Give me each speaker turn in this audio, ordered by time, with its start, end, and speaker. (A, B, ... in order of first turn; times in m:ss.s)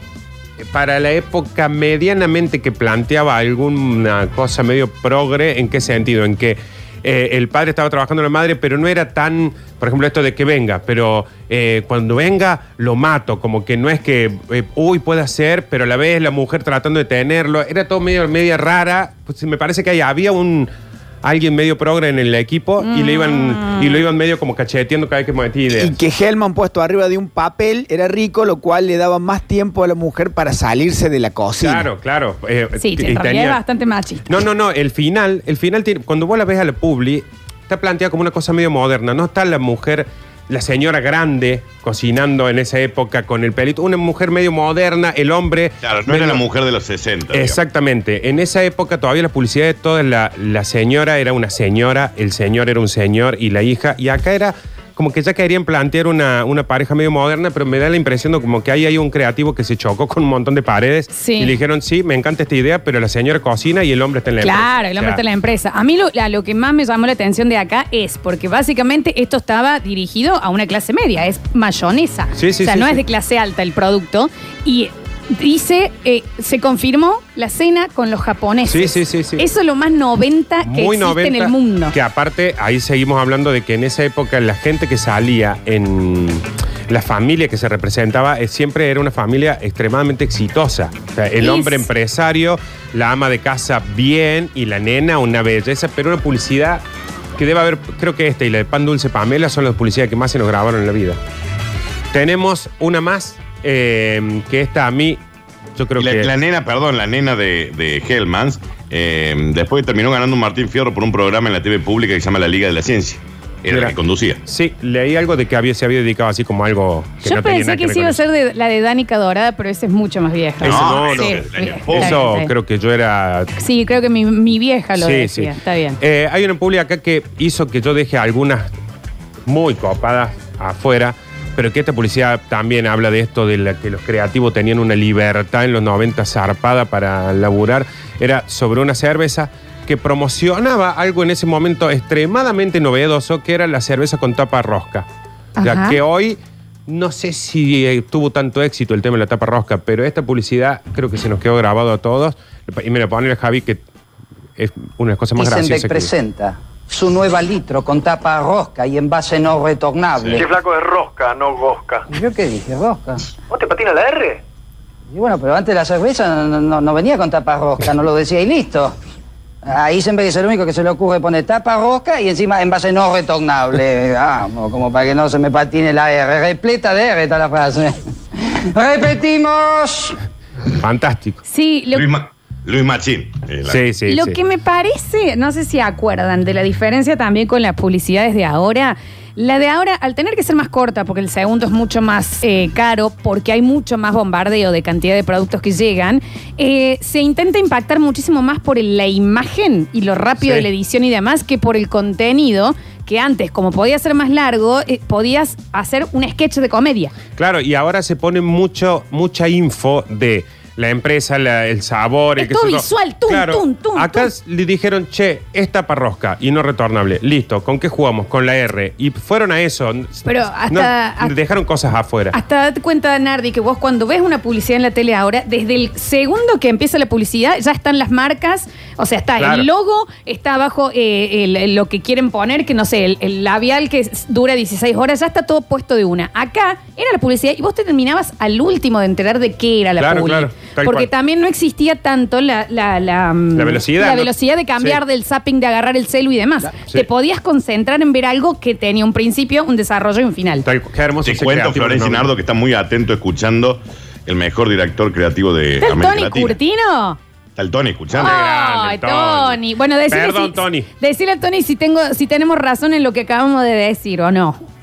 0:00.6-0:20.7 A
0:21.2-0:25.9 A
0:22.8-0:24.0 B
0:25.7-0:31.9 C
0:31.6-0:33.6 A
0:32.8-0:34.2 B
0:34.3-0:46.4 A
0:45.8-0:47.6 D
0:47.3-1:05.2 A
1:01.1-1:01.5 B
1:04.4-1:21.9 B
1:12.4-1:13.0 A
1:18.7-1:19.4 A
1:20.6-1:36.8 A
1:31.4-1:31.9 B
1:37.4-1:41.2 A
1:42.1-1:45.2 A
1:45.8-1:46.3 A
1:46.0-1:54.4 D
1:53.7-1:58.2 A
1:57.2-2:02.5 B
2:00.6-2:03.5 A
2:00.6-2:02.2 D
2:03.6-2:06.0 B
2:05.0-2:08.7 A
2:09.4-2:25.1 A
2:25.6-2:26.0 B
2:25.6-2:33.8 A
2:34.6-2:36.1 A
2:35.4-2:40.4 E
2:40.4-2:42.0 F
2:42.1-2:43.2 E
2:43.5-2:44.4 F
2:45.1-2:48.9 E
2:49.6-2:58.0 E
2:58.7-3:00.2 E
3:00.8-3:01.4 A
3:01.5-3:02.0 B
3:01.9-3:03.8 D
3:03.7-3:04.4 A
3:04.1-3:27.1 B
3:20.4-3:20.7 A
3:27.4-3:42.4 A
3:32.4-3:34.3 B
3:40.2-3:41.3 B
3:42.3-4:10.6 B
3:49.4-3:49.7 A
4:00.0-4:01.1 A
4:03.6-4:05.0 A
4:10.6-4:12.3 A
4:11.2-4:16.6 D
4:15.8-4:17.2 B
4:17.6-4:18.3 D
4:18.2-4:24.6 B
4:18.2-4:19.6 A
4:20.1-4:20.9 A